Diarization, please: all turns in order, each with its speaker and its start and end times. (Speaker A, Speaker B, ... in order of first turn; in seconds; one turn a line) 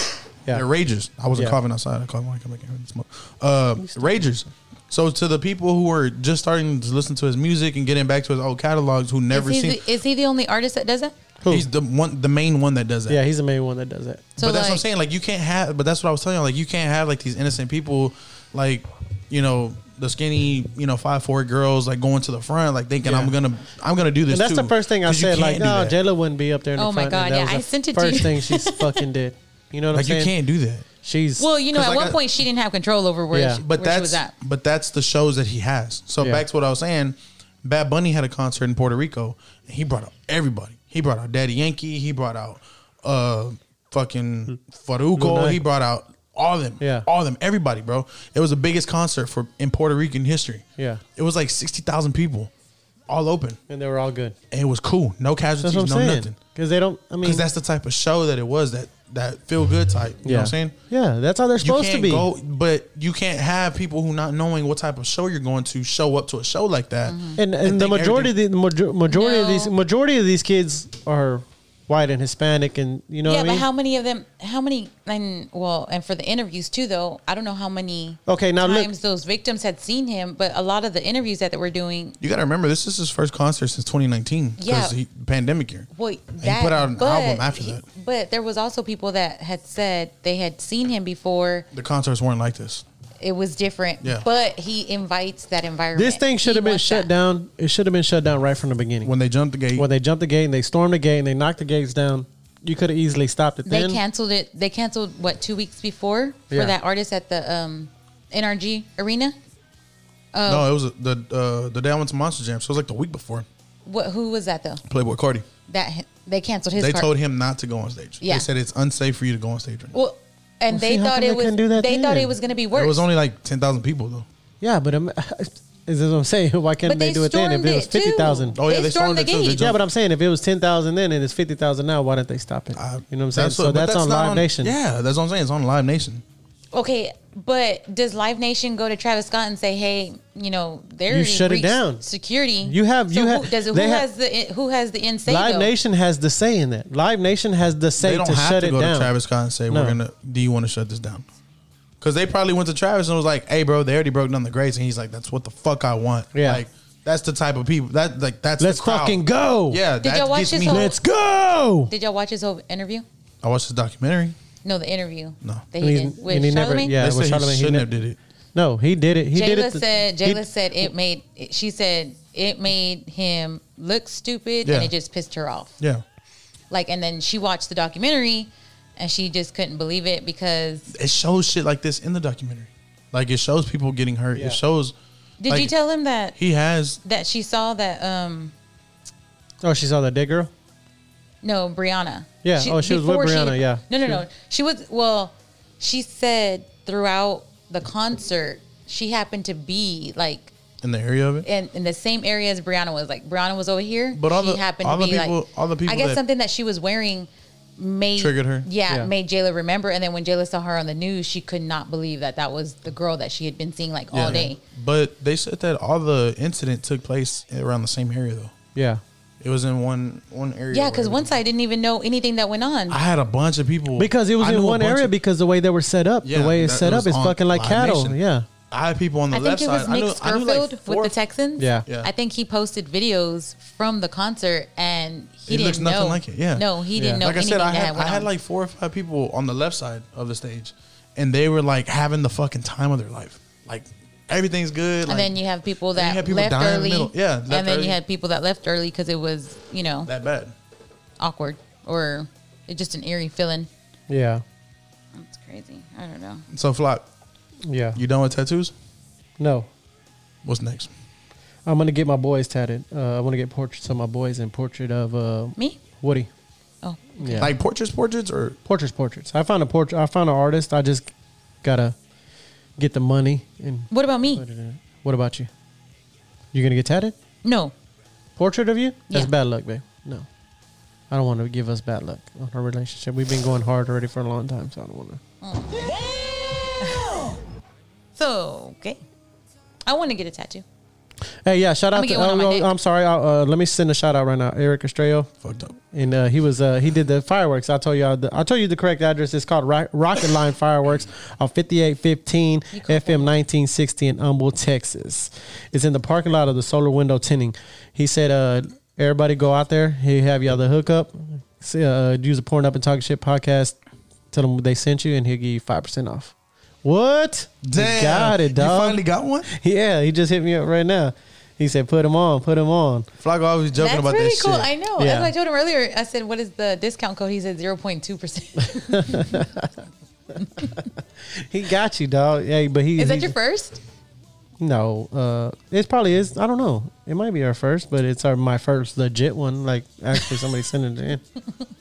Speaker A: 0.5-9.8
Speaker B: 3.8-4.4
Speaker C: 9.3-11.1
Speaker B: 11.4-11.7
Speaker A: 11.5-13.2
Speaker B: 13.1-14.3
Speaker C: 14.4-14.8
Speaker A: 14.4-26.0
Speaker B: 23.0-23.3
Speaker B: 24.3-30.3
Speaker C: 26.8-29.0
Speaker A: 29.9-30.9
Speaker B: 31.0-31.5
Speaker C: 31.4-34.3
Speaker A: 31.7-32.2
Speaker B: 33.3-33.6
Speaker A: 33.6-50.6
Speaker B: 45.1-45.6
Speaker B: 46.8-47.1
Speaker B: 50.8-51.0
Speaker A: 51.1-52.5
Speaker A: 53.1-53.6
Speaker B: 53.7-54.4
Speaker A: 54.5-56.4
Speaker B: 55.6-57.5
Speaker A: 57.2-60.7
Speaker B: 60.2-62.3
Speaker A: 61.6-68.3
Speaker C: 67.0-67.4
Speaker B: 67.4-73.7
Speaker C: 69.1-69.7
Speaker C: 73.2-82.2
Speaker B: 78.3-78.9
Speaker A: 82.2-85.9
Speaker C: 84.6-85.0
Speaker C: 85.9-91.7
Speaker A: 86.4-87.8
Speaker A: 91.7-92.8
Speaker C: 93.2-97.1
Speaker B: 95.9-99.1
Speaker A: 99.0-99.9
Speaker B: 99.7-104.0
Speaker C: 103.6-109.3
Speaker C: 110.3-110.7
Speaker A: 110.5-113.5
Speaker C: 113.8-114.8
Speaker A: 114.9-115.5
Speaker C: 115.7-117.1
Speaker A: 116.8-119.9
Speaker C: 118.2-118.5
Speaker C: 119.9-123.0
Speaker B: 120.7-122.3
Speaker A: 122.7-124.3
Speaker B: 124.6-128.6
Speaker C: 126.8-129.7
Speaker A: 128.6-129.8
Speaker B: 129.5-134.7
Speaker A: 132.7-136.2
Speaker C: 136.7-145.7
Speaker B: 141.1-142.0
Speaker B: 142.6-144.1
Speaker B: 145.2-149.1
Speaker A: 148.0-151.2
Speaker B: 149.7-150.0
Speaker A: 152.0-160.9
Speaker B: 156.3-156.6
Speaker B: 158.6-159.8
Speaker C: 160.0-161.0
Speaker B: 160.6-161.9
Speaker C: 161.9-163.1
Speaker A: 163.4-164.4
Speaker C: 164.6-167.0
Speaker B: 165.8-167.9
Speaker A: 166.9-168.2
Speaker B: 168.5-170.9
Speaker C: 169.3-175.8
Speaker A: 174.6-174.9
Speaker C: 176.7-180.9
Speaker A: 180.9-184.9
Speaker C: 185.4-186.3
Speaker A: 186.3-187.0
Speaker C: 187.0-188.5
Speaker B: 189.6-190.5
Speaker C: 191.4-200.5
Speaker B: 192.4-194.2
Speaker A: 200.8-201.5
Speaker C: 201.4-214.6
Speaker A: 204.1-206.2
Speaker A: 208.2-208.7
Speaker A: 214.1-218.5
Speaker B: 218.7-219.0
Speaker A: 219.4-221.4
Speaker C: 220.7-223.0
Speaker A: 222.9-225.1
Speaker B: 224.0-228.4
Speaker A: 226.2-228.2
Speaker A: 228.7-231.2
Speaker C: 229.3-238.3
Speaker B: 231.6-231.8
Speaker A: 235.5-245.4
Speaker B: 236.9-237.2
Speaker C: 245.1-250.1
Speaker A: 245.9-248.0
Speaker A: 250.0-250.5
Speaker C: 251.2-253.7
Speaker B: 254.1-254.4
Speaker C: 255.1-256.4
Speaker A: 256.5-257.1
Speaker B: 257.7-258.0
Speaker A: 257.9-258.7
Speaker B: 259.4-259.7
Speaker A: 260.4-260.9
Speaker B: 261.6-266.3
Speaker C: 266.8-267.5
Speaker B: 267.2-267.5
Speaker A: 267.4-268.6
Speaker B: 268.6-271.9
Speaker B: 272.8-275.5
Speaker C: 273.9-274.4
Speaker B: 276.5-277.1
Speaker C: 277.4-277.7
Speaker B: 278.4-280.3
Speaker B: 281.1-285.2
Speaker C: 285.4-287.4
Speaker C: 288.1-289.0
Speaker C: 289.9-290.6
Speaker B: 291.4-295.3
Speaker C: 291.9-292.7
Speaker A: 295.4-295.8
Speaker B: 295.9-313.8
Speaker C: 302.7-303.3
Speaker B: 314.3-323.1
Speaker A: 317.6-319.5
Speaker A: 323.2-324.7
Speaker C: 323.8-329.4
Speaker B: 325.0-325.3
Speaker B: 328.6-329.8
Speaker B: 330.4-333.3
Speaker C: 330.4-330.7
Speaker C: 332.9-333.8
Speaker B: 334.6-341.2